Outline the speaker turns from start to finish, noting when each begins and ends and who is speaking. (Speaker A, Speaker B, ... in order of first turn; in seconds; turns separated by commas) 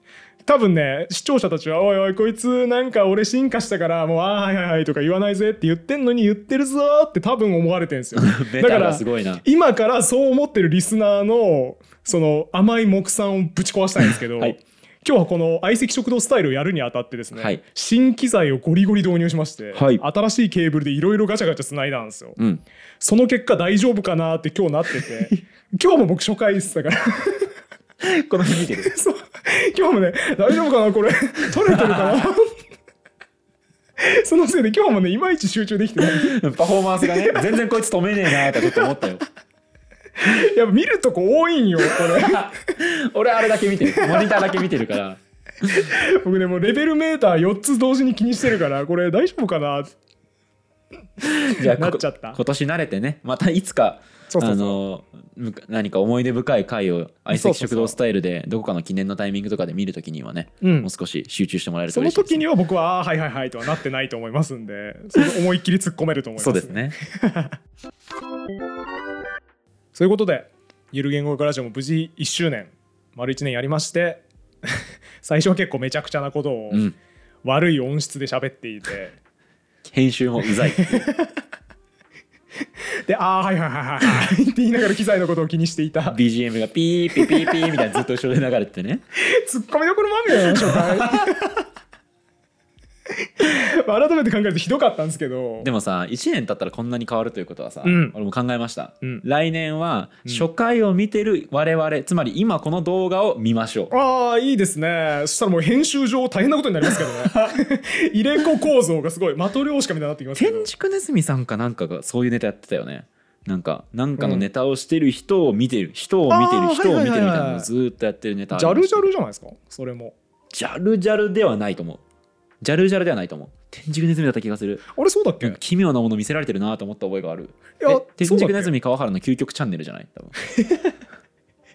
Speaker A: 0.5-22.4, Speaker B: 8.2-9.4, Speaker B: 17.4-17.6, Speaker B: 19.7-20.0, Speaker B: 22.4-22.6, Speaker A: 23.0-27.5, Speaker B: 28.0-29.0, Speaker A: 28.8-32.6, Speaker B: 31.6-32.3, Speaker A: 34.0-36.4, Speaker B: 36.0-39.2, Speaker A: 38.5-38.9, Speaker A: 40.2-42.5, Speaker B: 42.0-45.2, Speaker A: 43.8-44.5, Speaker A: 45.7-49.9, Speaker A: 51.5-52.4, Speaker B: 51.5-62.5, Speaker A: 54.3-54.8, Speaker A: 57.3-58.0, Speaker A: 60.6-60.9, Speaker A: 61.9-67.5, Speaker B: 66.4-67.0, Speaker A: 70.0-76.9, Speaker B: 76.7-77.0, Speaker A: 77.4-79.2, Speaker B: 79.8-81.1, Speaker A: 80.7-81.3, Speaker A: 83.1-86.2, Speaker B: 86.1-89.0, Speaker A: 87.2-88.0, Speaker A: 89.2-91.7, Speaker B: 90.5-91.3, Speaker A: 93.4-95.7, Speaker B: 95.6-103.9, Speaker A: 97.8-98.2, Speaker A: 103.9-110.7, Speaker B: 107.2-107.5, Speaker B: 110.4-119.1, Speaker A: 114.2-114.5, Speaker A: 116.3-117.7, Speaker A: 118.5-120.2, Speaker B: 120.5-122.0, Speaker B: 122.6-124.9, Speaker A: 124.9-125.6, Speaker B: 125.4-130.4, Speaker A: 127.8-128.7